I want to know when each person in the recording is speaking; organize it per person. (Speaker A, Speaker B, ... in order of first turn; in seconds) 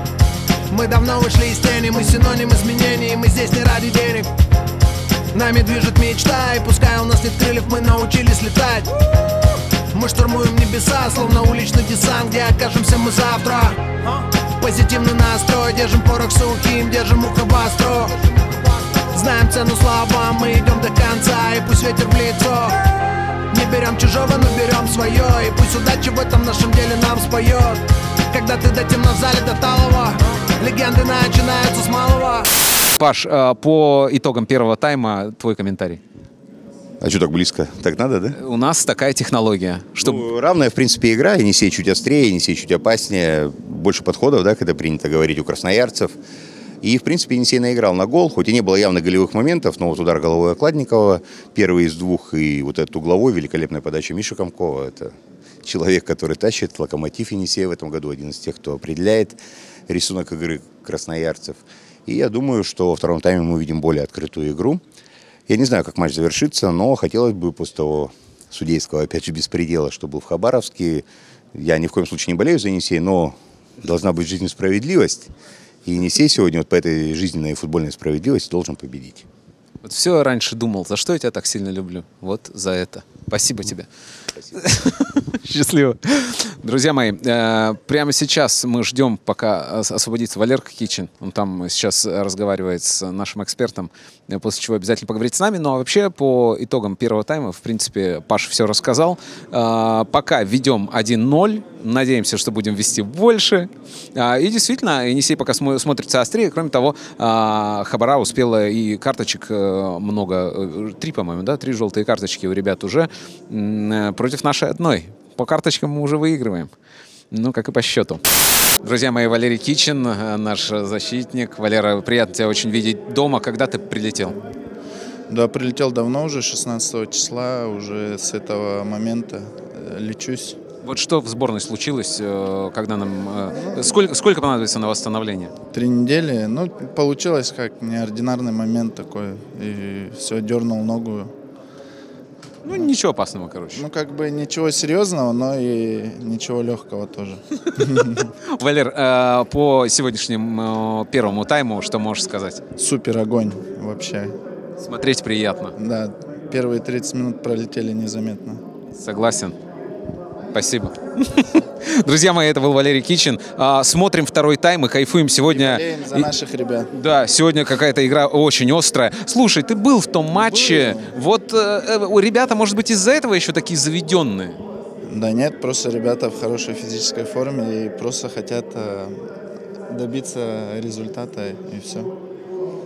Speaker A: 0.7-4.2, 5.3-8.9, 9.9-18.2, 19.1-22.8, 23.5-27.8, 28.3-32.5
Speaker B: 33.0-36.0, 38.4-40.2, 79.8-83.9, 84.5-116.7, 117.3-118.2, 118.8-124.4, 130.8-135.5, 142.6-143.8, 148.6-152.6, 154.8-155.7, 159.0-159.6, 160.5-166.3, 166.9-174.6
Speaker C: 37.0-38.4, 40.0-46.1, 46.8-55.1, 55.6-64.8, 65.5-75.3, 75.8-79.2
Speaker D: 125.3-130.6, 133.5-133.9, 135.7-141.3, 143.8-148.3, 152.8-154.3, 155.8-158.6, 165.5-166.9, 170.3-171.1, 175.1-179.2, 179.9-182.1